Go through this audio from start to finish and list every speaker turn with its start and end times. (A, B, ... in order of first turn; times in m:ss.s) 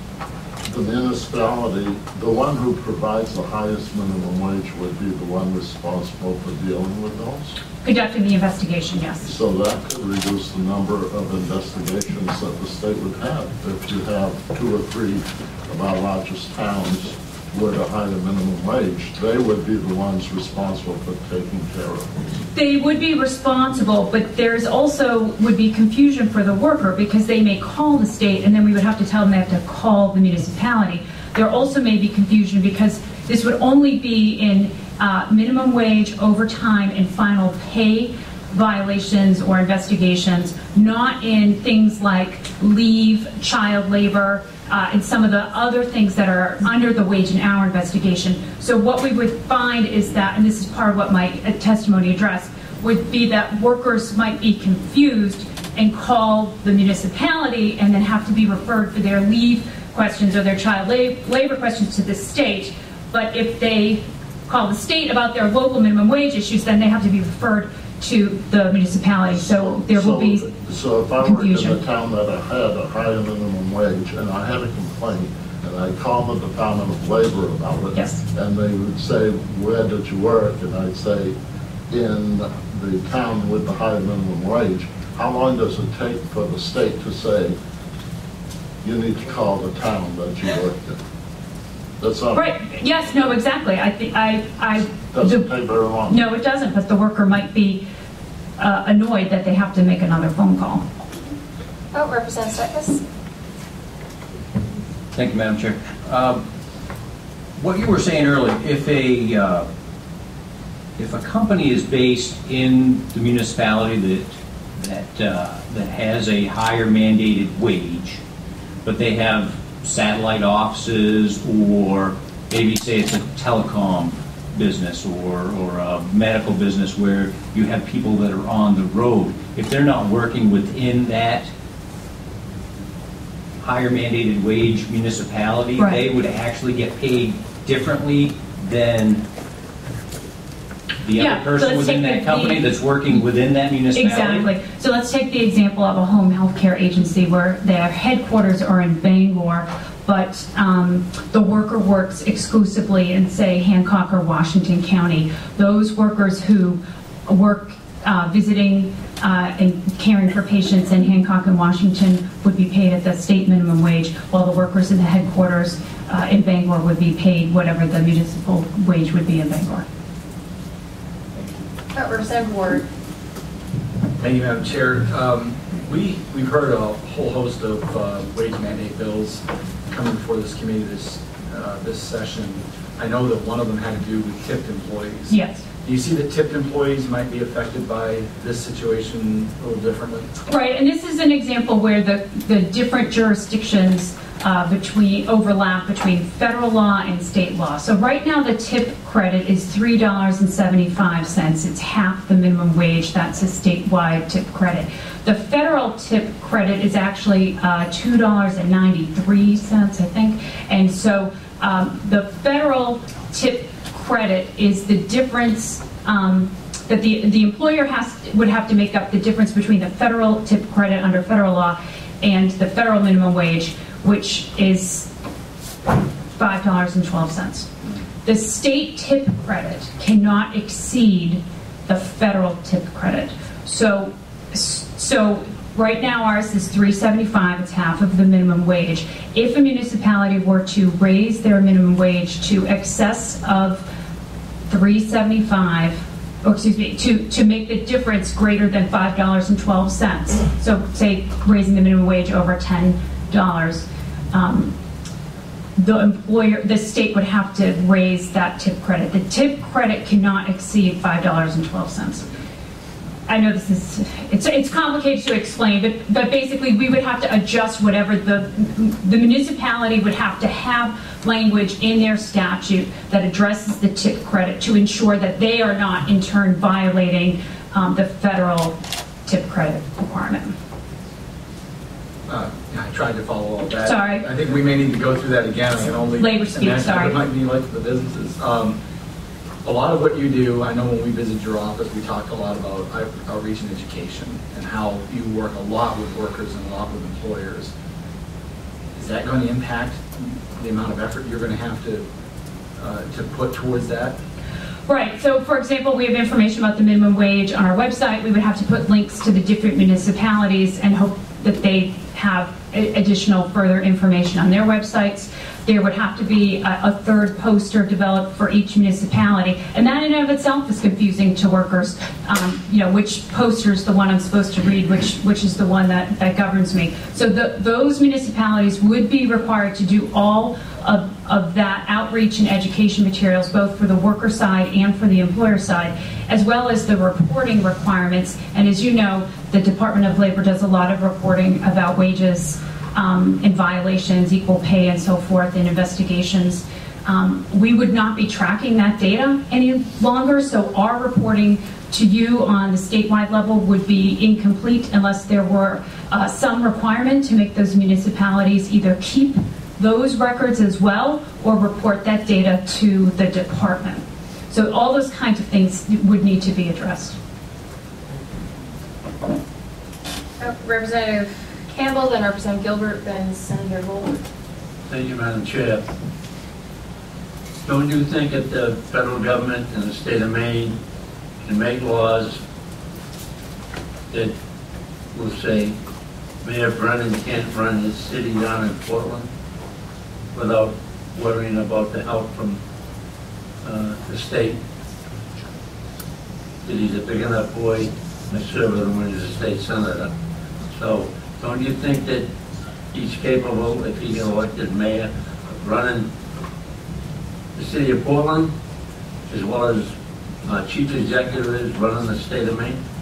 0:00.6-0:07.6 A
0:07.8-0:09.3 B
0:09.2-0:22.1 A
0:22.5-1:10.5 B
1:09.3-1:21.3 A
1:11.2-1:11.8 B
1:17.9-1:18.2 B
1:21.9-1:27.6 A
1:28.8-1:31.0 A
1:32.0-1:32.5 A
1:32.3-1:35.4 B
1:35.1-1:36.2 A
1:36.1-1:37.8 B
1:38.6-1:40.8 B
1:41.9-1:43.0 C
1:45.1-1:46.4 D
1:47.6-1:49.6 D
1:51.0-1:58.2 D
1:58.8-2:11.5 D
2:13.6-2:19.2 D
2:21.0-2:24.5 D
2:21.2-2:22.6 B
2:23.9-2:49.8 B
2:51.9-2:52.8 C
2:54.2-3:10.3 E
3:05.3-3:05.6 B
3:10.5-3:45.1 B
3:46.4-3:47.7 B
3:48.2-4:03.8 B
4:04.7-4:14.7 B
4:15.8-4:22.3 B
4:23.3-4:40.6 B
4:42.3-4:48.8 E
4:43.8-4:44.2 B
4:46.2-4:47.2 B
4:49.6-4:57.7 E
4:58.9-5:02.1 E
5:02.8-5:04.2 E
5:04.9-6:07.2 B
6:10.4-6:14.2 C
6:14.9-6:15.8 F
6:17.6-6:20.8 F
6:21.4-6:22.4 F
6:25.1-6:25.8 F
6:26.4-6:29.3 F
6:30.3-6:32.6 F
6:33.6-6:34.6 F
6:36.6-6:40.1 F
6:40.7-6:42.3 F
6:42.9-6:46.1 F
6:47.6-6:48.5 F
6:49.3-6:49.9 F
6:50.4-6:52.8 F